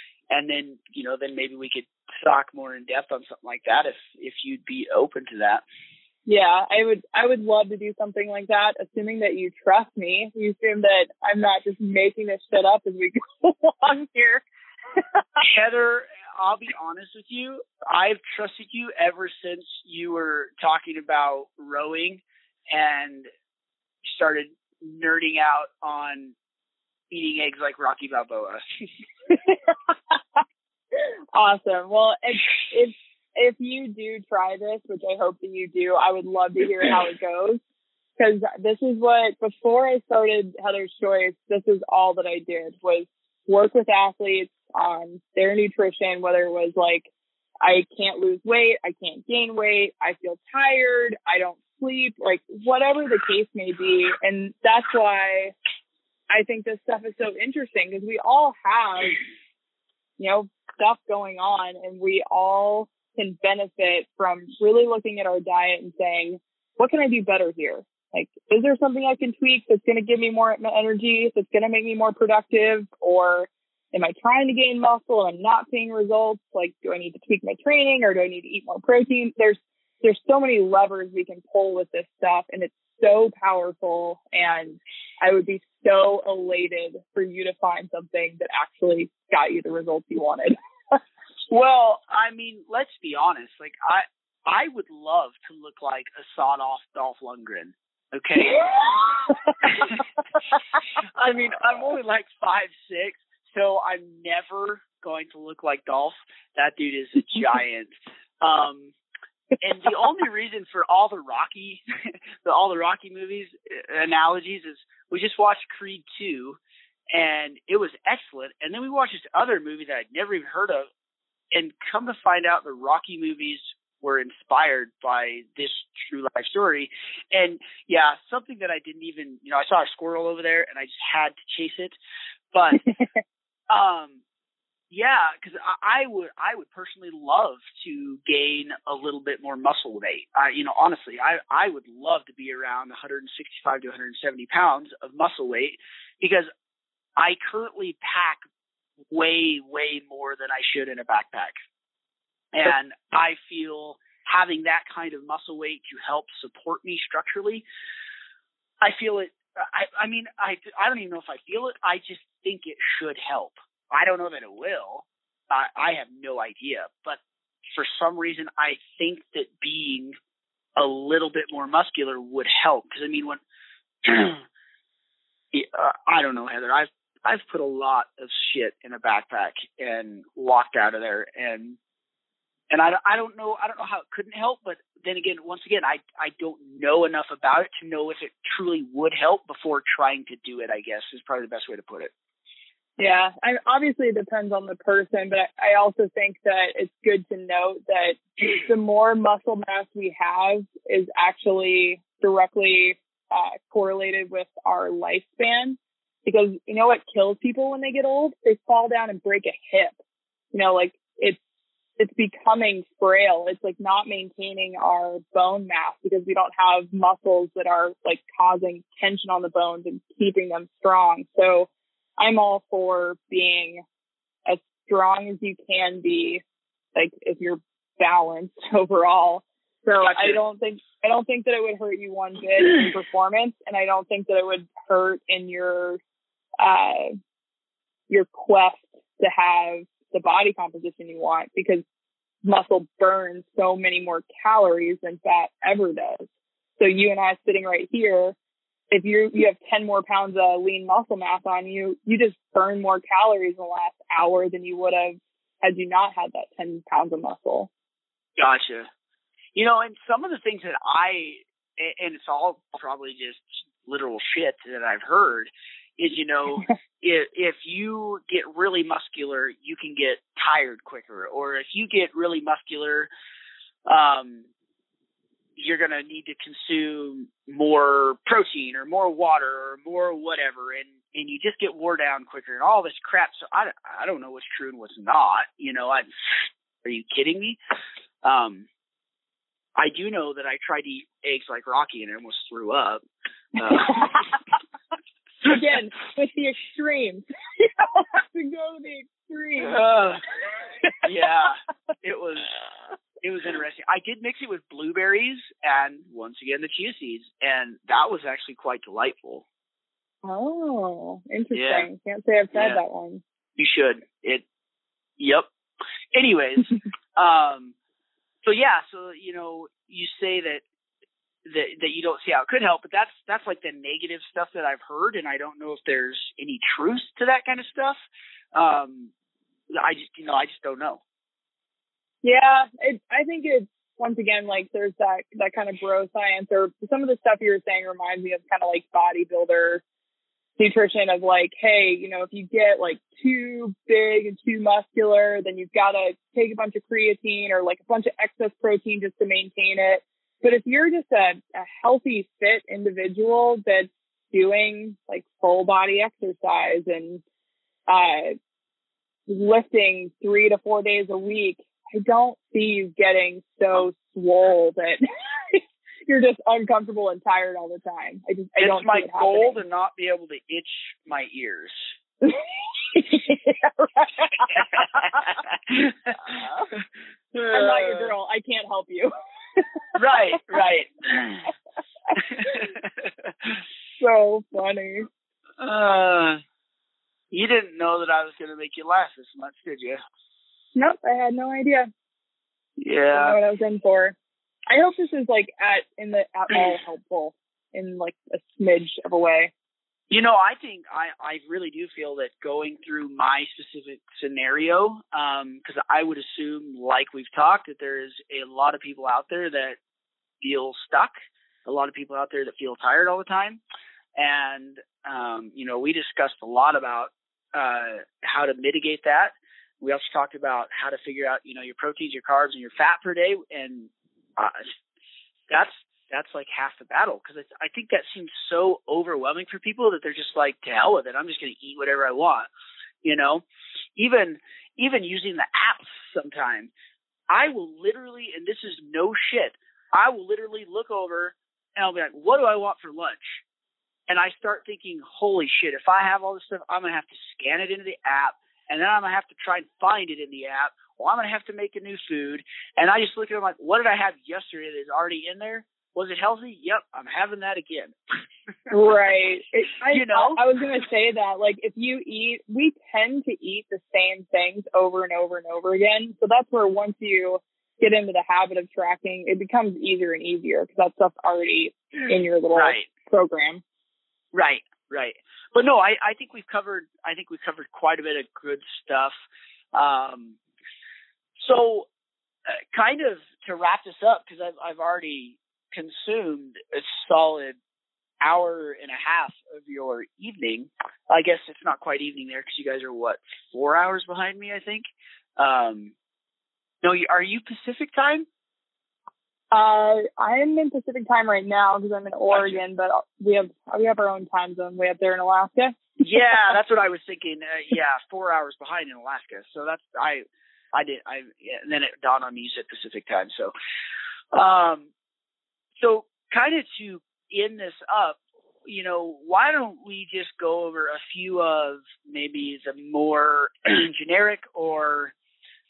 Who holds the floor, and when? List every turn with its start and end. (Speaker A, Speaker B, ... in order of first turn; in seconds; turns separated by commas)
Speaker A: 0.3-5.6, Speaker B: 6.3-14.4, Speaker A: 15.4-23.3, Speaker A: 24.0-26.3, Speaker A: 27.1-28.6, Speaker B: 31.3-37.6, Speaker B: 38.2-47.1, Speaker B: 47.6-55.5, Speaker B: 56.3-59.2, Speaker B: 60.2-90.5, Speaker A: 91.5-100.0, Speaker A: 101.2-107.9, Speaker A: 108.4-108.9, Speaker A: 109.6-111.8, Speaker A: 112.4-116.6, Speaker A: 117.1-120.9, Speaker A: 121.5-132.0, Speaker A: 132.5-132.9, Speaker A: 133.7-134.2, Speaker A: 134.9-146.5, Speaker A: 147.2-148.4, Speaker A: 149.1-151.5, Speaker A: 152.5-157.6, Speaker A: 158.8-167.2, Speaker A: 167.7-170.2, Speaker A: 170.8-173.4, Speaker A: 174.1-174.4, Speaker A: 175.5-181.8, Speaker A: 182.7-192.1, Speaker B: 193.0-210.0, Speaker B: 210.5-211.4, Speaker B: 212.0-223.8, Speaker B: 224.5-226.4, Speaker B: 226.9-236.0, Speaker A: 230.0-230.4, Speaker B: 236.6-237.1, Speaker B: 238.1-241.8, Speaker B: 242.4-246.3, Speaker B: 246.8-248.4, Speaker B: 248.9-257.7, Speaker A: 258.4-258.9, Speaker A: 259.6-273.1, Speaker A: 273.9-274.5, Speaker A: 275.6-287.6, Speaker A: 288.2-288.7, Speaker A: 289.8-293.0, Speaker A: 293.6-294.2, Speaker B: 293.9-294.2, Speaker B: 295.5-299.8, Speaker A: 299.6-300.2, Speaker A: 301.0-302.5, Speaker A: 303.2-309.4, Speaker B: 310.2-313.2, Speaker A: 311.5-311.9, Speaker A: 312.5-312.8, Speaker A: 313.6-314.4, Speaker A: 315.2-315.5, Speaker A: 316.1-317.7, Speaker A: 318.4-320.6, Speaker A: 321.5-328.0, Speaker A: 328.5-329.1, Speaker A: 329.7-331.0, Speaker B: 332.2-339.8, Speaker B: 340.6-357.2, Speaker B: 357.9-358.4, Speaker B: 359.3-369.6, Speaker A: 368.6-371.9, Speaker B: 372.9-374.6, Speaker A: 374.6-376.8, Speaker A: 377.3-378.1, Speaker B: 377.5-379.8, Speaker A: 379.9-381.5, Speaker A: 382.2-383.6, Speaker B: 384.0-385.1, Speaker A: 385.6-386.4, Speaker A: 387.3-390.0, Speaker B: 390.8-391.9, Speaker A: 392.8-393.4, Speaker B: 393.1-394.1, Speaker B: 394.7-399.5, Speaker A: 400.1-409.8, Speaker A: 410.4-411.1, Speaker A: 411.7-413.6, Speaker A: 414.2-424.7, Speaker A: 425.5-432.5, Speaker A: 433.0-433.4, Speaker A: 434.0-436.7, Speaker A: 437.3-443.4, Speaker A: 444.1-457.9, Speaker B: 458.7-473.6, Speaker A: 459.9-460.4, Speaker A: 472.6-472.9, Speaker A: 474.3-479.1, Speaker A: 479.7-480.4, Speaker A: 481.4-481.9, Speaker A: 482.5-487.6, Speaker A: 488.2-494.8, Speaker A: 495.4-495.9, Speaker A: 496.8-498.3, Speaker B: 499.5-505.8, Speaker A: 502.3-502.6, Speaker A: 506.0-513.5, Speaker A: 514.3-514.9, Speaker A: 515.8-525.1